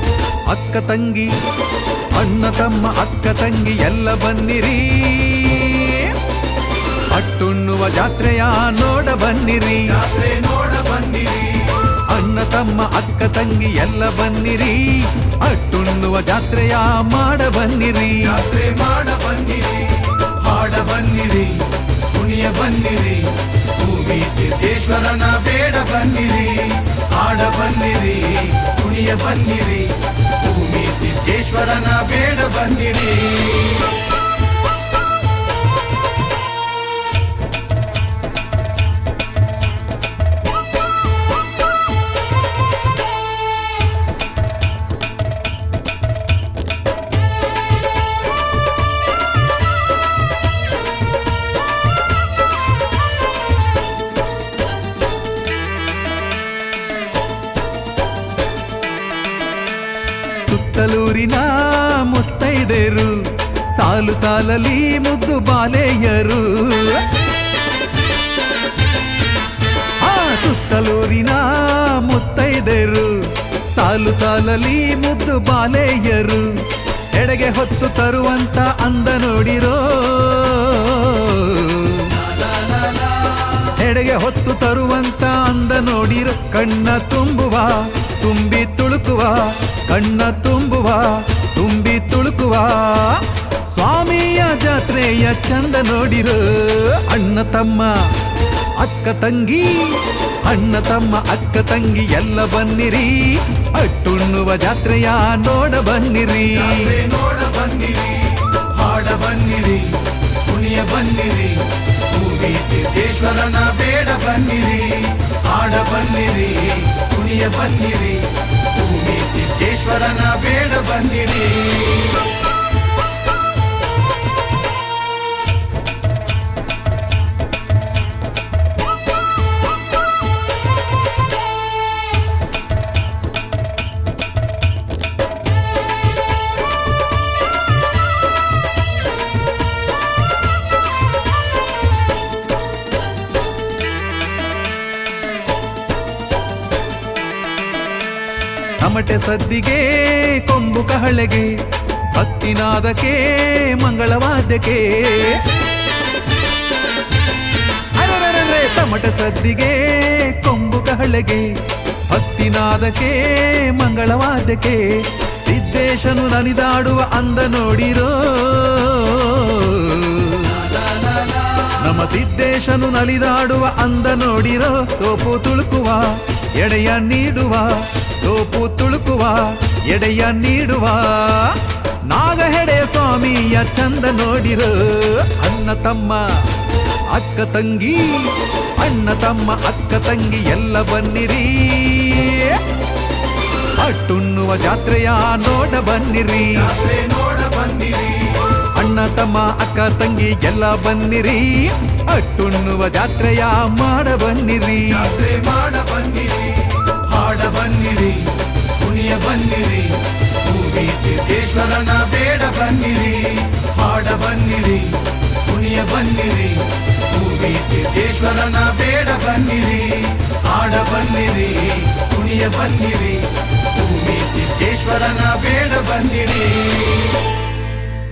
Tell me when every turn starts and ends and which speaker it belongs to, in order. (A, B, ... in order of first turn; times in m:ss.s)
0:00.5-0:01.3 A
0:02.1-0:06.2 A
0:07.1-0:10.0 A
0:10.0-0:11.8 B
0:12.0-0:18.5 A
0:18.5-0:33.8 B
1:00.4-1:07.1 A
1:10.0-1:22.4 A
1:23.6-1:38.1 A
1:38.8-1:47.1 A
1:47.1-2:02.0 B
2:28.8-2:35.5 A
2:37.9-2:50.8 A
2:51.6-3:06.5 A
3:07.1-3:12.7 A
3:13.8-3:16.8 A
3:16.8-3:18.3 B
3:18.7-3:25.2 A
3:25.2-3:47.0 B